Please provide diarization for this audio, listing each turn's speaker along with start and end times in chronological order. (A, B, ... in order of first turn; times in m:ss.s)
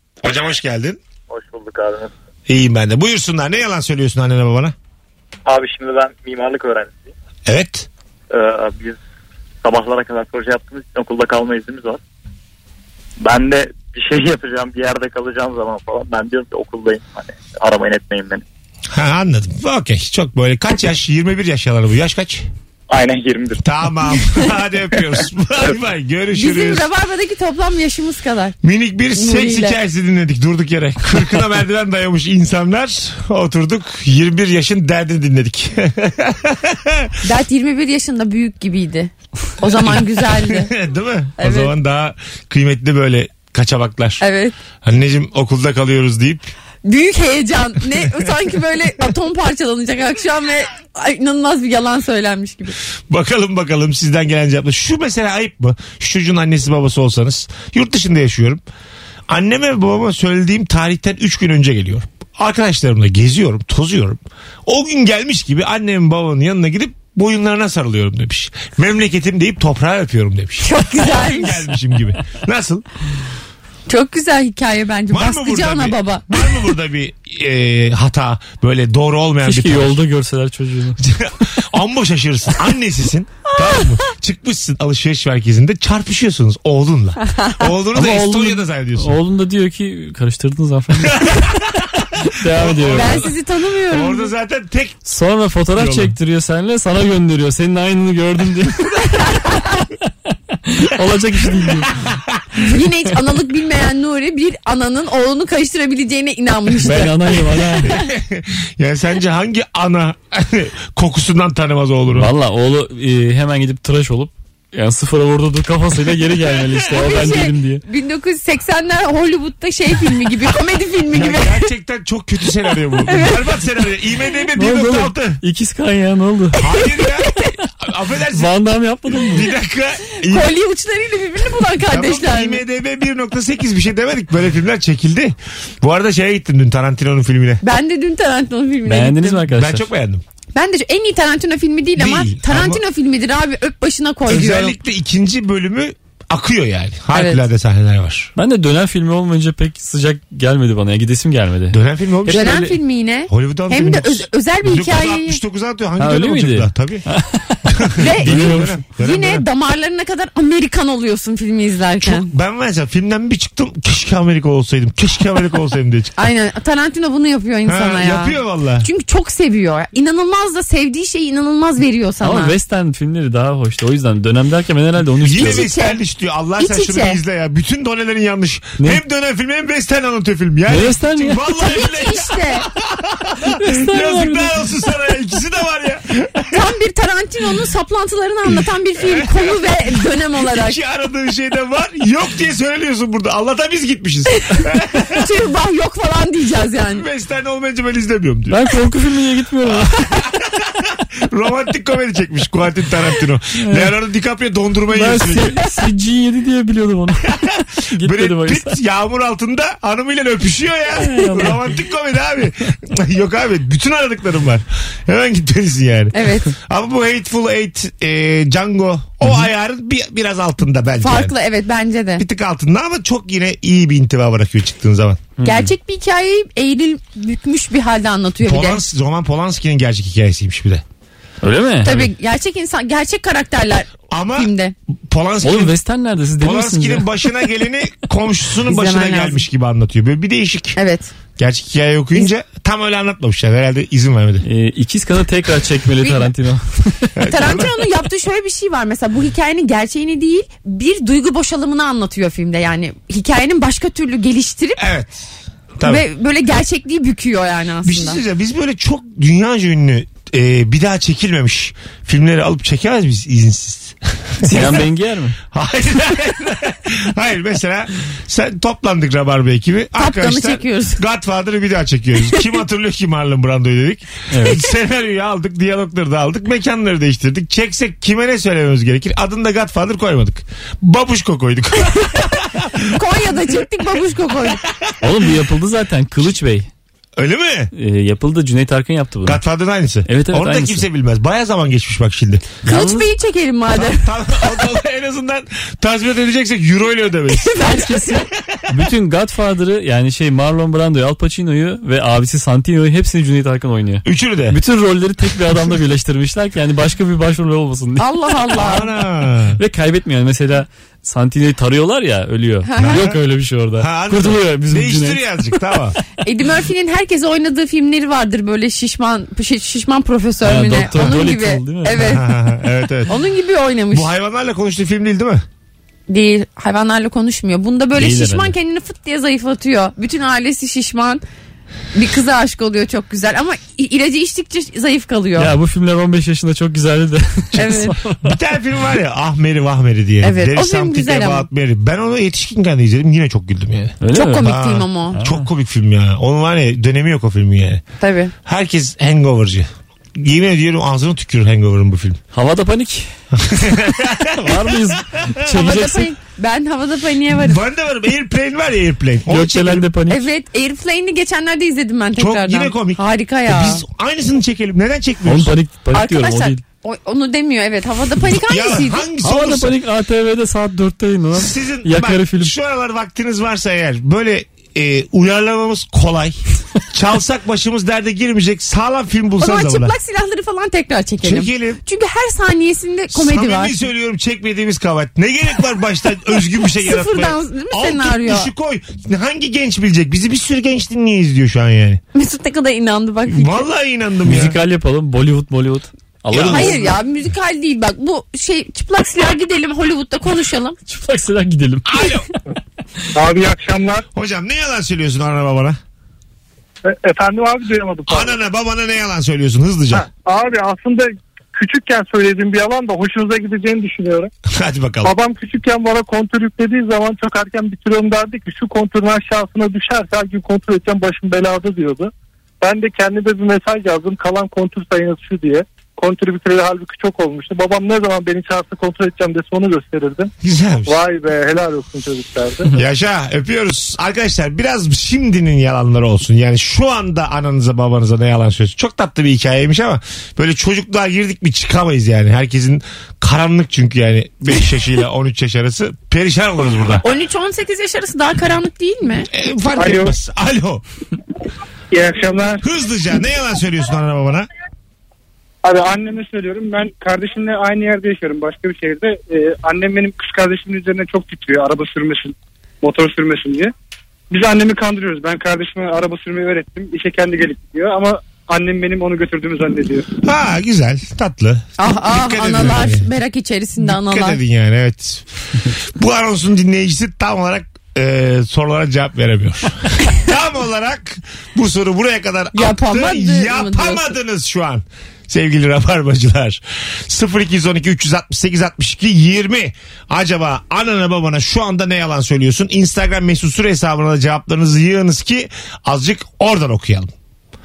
0:00.2-0:01.0 A
0:01.3-0:02.1 B
0:02.5-0:04.8 A
0:05.5-0:07.1 B
0:07.5-0:07.9 A
0:08.3-0:09.0 B
0:09.6-0:12.0 B
0:13.2-0:18.4 B
0:18.9-0:22.5 A
0:22.9-0:23.6 B
0:23.6-0:26.9 A
0:26.4-0:28.6 C
0:28.6-0:37.2 A
0:29.1-0:29.8 C
0:37.2-0:40.7 C
0:39.7-0:44.2 A
0:41.4-0:41.7 C
0:44.2-0:44.6 C
0:44.8-0:46.5 A
0:46.8-0:52.8 C
0:48.0-0:48.3 A
0:53.1-0:58.6 A
0:59.3-1:12.8 A
1:10.6-1:11.7 C
1:13.9-1:16.3 C
1:15.1-1:20.0 A
1:19.4-1:21.0 D
1:21.0-1:29.2 A
1:23.5-1:24.0 C
1:27.2-1:27.7 C
1:27.9-1:31.6 D
1:31.0-1:33.3 A
1:32.3-1:33.2 D
1:32.9-1:34.3 C
1:33.9-1:35.1 A
1:35.1-1:39.5 D
1:35.7-1:36.2 A
1:40.7-1:42.0 D
1:42.1-1:42.4 A
1:42.6-1:47.2 C
1:46.8-1:47.9 D
1:47.8-1:52.3 A
1:52.2-1:57.8 D
1:56.9-2:01.7 C
2:01.1-2:05.4 A
2:03.0-2:03.4 C
2:04.6-2:06.6 D
2:06.5-2:08.5 A
2:06.8-2:07.5 C
2:08.3-2:09.5 D
2:09.1-2:10.5 A
2:10.2-2:12.6 C
2:11.9-2:17.6 A
2:17.6-2:19.4 C
2:18.9-2:19.9 D
2:19.5-2:20.2 A
2:20.5-2:24.8 C
2:22.0-2:22.8 A
2:24.3-2:28.3 A
2:27.1-2:27.4 C
2:28.4-2:31.8 D
2:31.7-2:37.1 A
2:32.3-2:35.4 C
2:36.0-2:38.8 D
2:37.7-2:39.4 A
2:38.0-2:42.3 C
2:42.0-2:46.2 A
2:46.2-2:52.6 C
2:47.7-2:48.9 A
2:52.2-2:55.6 D
2:55.2-3:06.6 A
2:55.4-2:56.0 C
2:56.6-2:57.2 C
3:00.7-3:01.4 D
3:01.6-3:02.7 C
3:03.5-3:04.7 D
3:06.5-3:10.8 C
3:09.0-3:15.3 A
3:14.5-3:17.0 C
3:16.9-3:18.6 A
3:18.5-3:20.0 D
3:19.7-3:25.6 A
3:23.6-3:24.0 D
3:24.9-3:28.8 D
3:27.3-3:41.4 A
3:31.0-3:31.7 D
3:36.1-3:36.5 C
3:41.0-3:42.2 C
3:42.2-3:45.2 A
3:45.4-3:45.7 D
3:45.4-3:48.8 C
3:48.4-3:50.8 A
3:51.4-3:52.1 D
3:51.8-3:54.8 C
3:54.1-3:54.5 A
3:55.1-3:55.8 A
3:55.4-3:57.3 D
3:56.4-4:00.8 A
3:58.7-3:59.4 C
4:00.8-4:01.1 C
4:01.4-4:04.4 A
4:04.4-4:07.2 D
4:06.0-4:06.3 C
4:07.2-4:07.8 A
4:07.3-4:14.8 C
4:14.8-4:15.2 A
4:15.8-4:16.0 A
4:15.8-4:18.2 C
4:17.8-4:24.9 A
4:24.4-4:25.4 D
4:25.5-4:43.0 A
4:30.0-4:31.0 C
4:34.3-4:34.6 D
4:41.9-4:42.3 C
4:42.9-4:44.6 C
4:44.4-4:45.1 A
4:45.0-4:46.7 D
4:47.2-4:47.7 A
4:47.8-4:49.4 D
4:49.2-4:52.6 A
4:50.1-4:50.9 D
4:52.6-4:53.1 D
4:52.7-4:54.5 C
4:53.7-4:57.6 A
4:57.3-4:58.2 C
4:57.6-5:08.0 D
4:58.4-4:58.8 A
5:04.0-5:04.6 A
5:08.0-5:08.9 C
5:08.5-5:09.6 A
5:09.6-5:15.6 D
5:12.6-5:13.0 C
5:12.8-5:13.2 A
5:13.8-5:16.0 A
5:16.2-5:22.3 C
5:20.4-5:22.1 D
5:22.0-5:23.1 A
5:23.1-5:24.1 C
5:23.9-5:25.4 A
5:26.1-5:31.2 C
5:28.0-5:28.5 D
5:31.9-5:35.5 C
5:35.4-5:38.4 D
5:37.6-5:38.0 C
5:38.2-5:47.8 A
5:40.2-5:41.5 C
5:44.0-5:44.5 D
5:44.1-5:45.2 C
5:45.1-5:45.5 D
5:48.0-5:48.3 C
5:48.4-5:52.2 A
5:52.3-5:56.1 D
5:53.3-5:55.5 A
5:55.5-5:57.6 C
5:57.4-5:59.9 A
5:59.3-6:00.3 D
6:00.1-6:03.8 C
6:02.2-6:05.5 A
6:05.2-6:06.6 D
6:05.9-6:09.1 C
6:08.3-6:09.8 A
6:09.2-6:12.5 D
6:11.3-6:20.0 A
6:19.4-6:23.8 C
6:21.2-6:21.8 A
6:23.1-6:32.0 A
6:26.8-6:28.5 C
6:32.1-6:33.7 C
6:33.3-6:34.6 A
6:34.2-6:37.0 D
6:36.3-6:36.8 A
6:36.5-6:40.8 C
6:40.9-6:42.2 D
6:41.9-6:42.3 A
6:43.1-6:44.0 E
6:44.1-6:45.8 A
6:46.8-6:48.4 E
6:48.1-6:50.1 A
6:49.9-6:54.3 E
6:54.5-6:55.2 A
6:55.0-7:10.3 E
7:10.4-7:11.0 A
7:10.9-7:12.7 E
7:12.7-7:27.0 A
7:27.0-7:29.3 C
7:29.3-7:30.8 A
7:29.8-7:30.1 E
7:31.9-7:32.6 E
7:32.6-7:34.5 A
7:35.6-7:43.7 E
7:44.3-7:50.1 E
7:50.2-7:53.1 A
7:51.8-7:54.4 C
7:53.8-8:17.1 A
8:02.5-8:04.2 C